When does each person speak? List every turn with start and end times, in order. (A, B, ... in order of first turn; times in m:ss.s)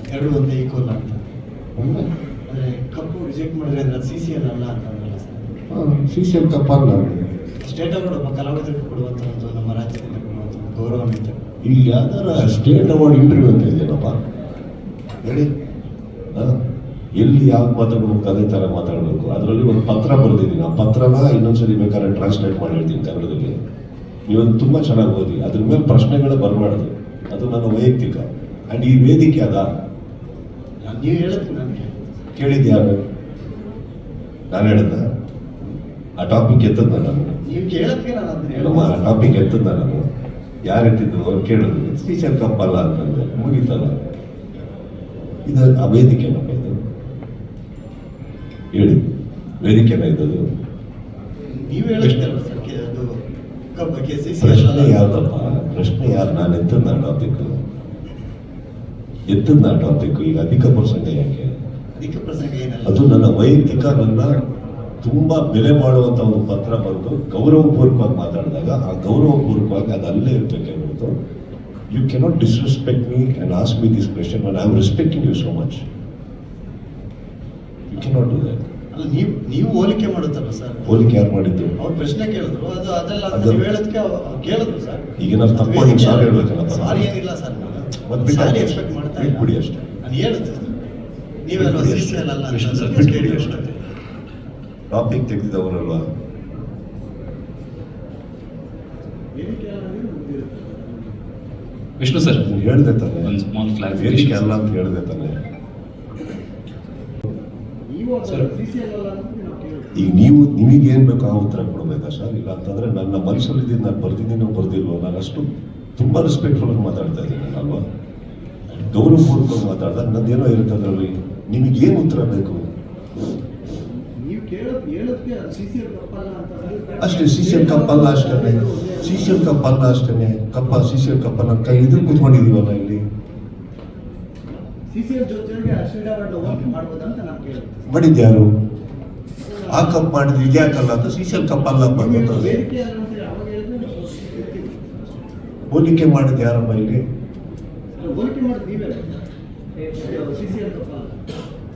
0:00.1-0:01.2 A
0:01.8-0:02.1 B
0:02.5-0:05.6 A
0:05.7-0:07.2 B
0:07.6-0:11.4 A
0:11.6-0:14.2 B
0:15.2-0:15.5 B
0:17.2-0:23.6 B
0:24.3-0:29.6 B
0:30.8-0:32.0 A
0:32.4-0:33.0 B
0:34.5-0:35.0 B
0:36.2-0:37.4 B
0:37.4-0:39.2 A
0:38.5-0:40.0 B
0:40.7-0:44.0 B
0:45.4-0:46.7 B
0:48.7-0:49.0 B
0:49.6-0:50.4 B
0:51.5-0:53.1 A
0:52.0-0:52.3 C
0:53.7-0:55.2 A
0:54.4-0:57.5 B
0:59.3-1:01.5 B
1:01.9-1:03.3 A
1:02.8-1:04.4 B
1:05.0-1:11.1 B
1:11.9-1:15.8 B
1:17.9-1:18.6 B
1:18.9-1:21.0 A
1:20.8-1:21.7 B
1:21.8-1:30.8 A
1:23.3-1:23.6 B
1:25.2-1:27.1 B
1:28.0-1:29.8 B
1:31.4-1:33.7 A
1:31.5-1:33.7 B
1:32.5-1:33.1 C
1:34.9-1:36.0 B
1:39.3-1:41.2 A
1:42.0-1:42.4 C
1:42.4-1:43.3 B
1:43.2-1:44.4 C
1:43.9-1:45.4 B
1:47.8-1:50.1 A
1:49.9-1:57.8 B
1:58.8-2:02.6 B
2:04.1-2:09.5 A
2:07.0-2:13.0 B
2:14.9-2:17.8 A
2:17.9-2:18.5 B
2:19.5-2:19.9 A
2:19.7-2:22.6 B
2:21.9-2:24.8 A
2:25.7-2:27.0 B
2:28.0-2:29.2 A
2:29.9-2:31.2 A